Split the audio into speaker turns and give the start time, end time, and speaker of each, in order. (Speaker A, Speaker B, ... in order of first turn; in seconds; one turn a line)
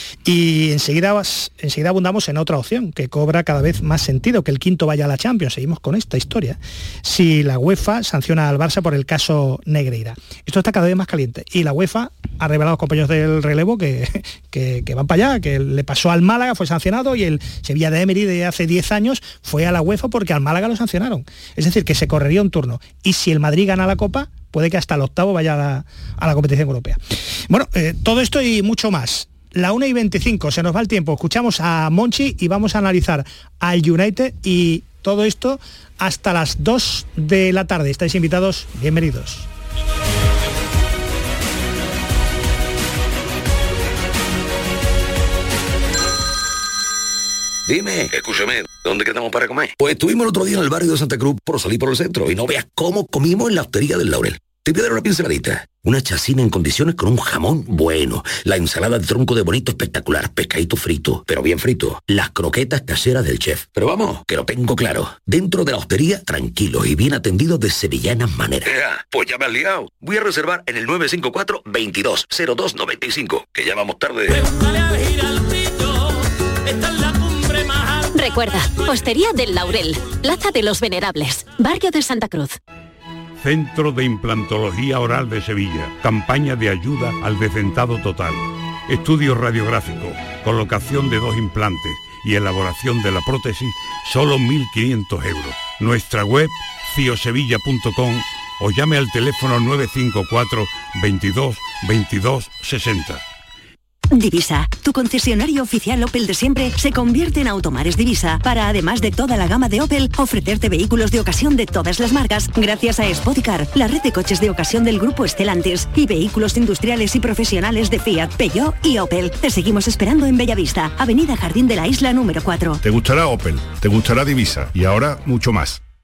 Speaker A: 0.2-27.0
Speaker A: 27.5-39.5
Speaker B: 47.7-74.4
Speaker C: 78.1-82.6
Speaker D: 83.4-103.2
Speaker E: 104.1-122.8
Speaker F: 122.9-125.8